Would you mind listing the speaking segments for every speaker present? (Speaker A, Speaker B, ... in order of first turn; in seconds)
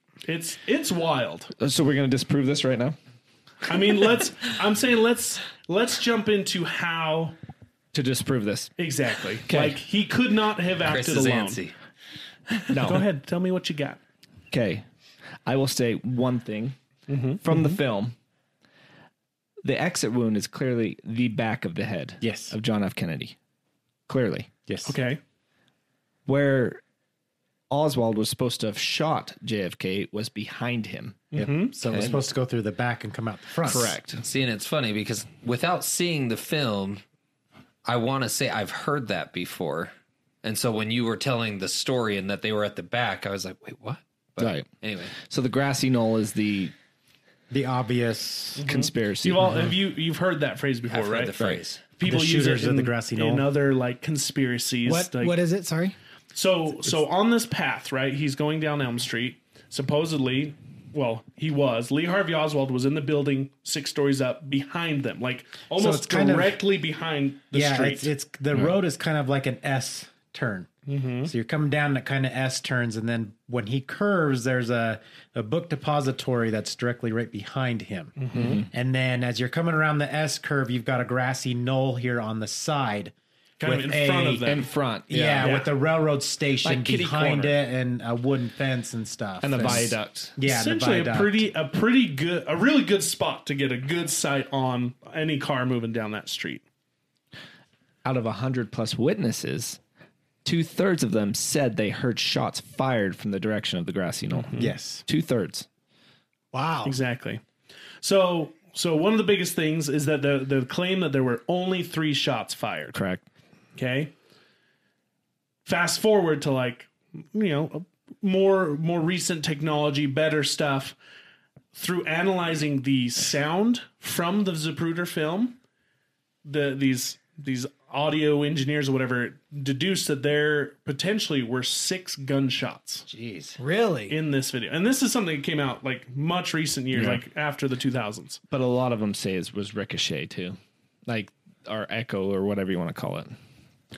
Speaker A: 0.2-1.5, 3.7-7.4, 8.8-11.6, 12.8-14.0, 17.1-17.8, 24.9-25.2, 31.3-31.8, 48.6-55.4, 56.3-68.1, 70.9-71.3, 78.2-78.6, 83.6-84.7, 85.4-85.7, 90.4-96.6, 104.4-104.7, 106.8-107.4, 108.0-113.0, 113.8-114.1, 115.7-121.0, 121.8-125.6, 126.5-133.1, 134.1-138.4
Speaker B: 1.6-3.0, 7.9-8.7, 9.5-9.8, 12.7-13.1, 14.5-14.8, 15.5-16.8, 17.4-18.1, 19.6-23.4, 24.1-24.5, 26.3-26.8, 27.7-31.3, 33.6-34.2, 44.4-46.7, 48.7-49.5, 78.3-78.7, 84.5-85.5, 86.6-87.6, 89.4-90.3, 98.0-99.8, 100.5-105.7, 112.9-113.2, 136.9-137.2, 138.5-143.3
Speaker C: 10.8-11.8, 34.2-37.0, 37.9-39.9, 40.4-45.1, 50.9-51.8, 133.2-133.5
Speaker D: 22.2-22.5, 24.7-25.0, 31.4-34.0, 47.5-48.6, 52.0-53.5, 65.8-66.6, 67.5-70.7, 71.2-84.5, 85.1-91.5, 104.6-105.0
Speaker E: 54.9-56.0, 106.5-107.0, 133.6-134.2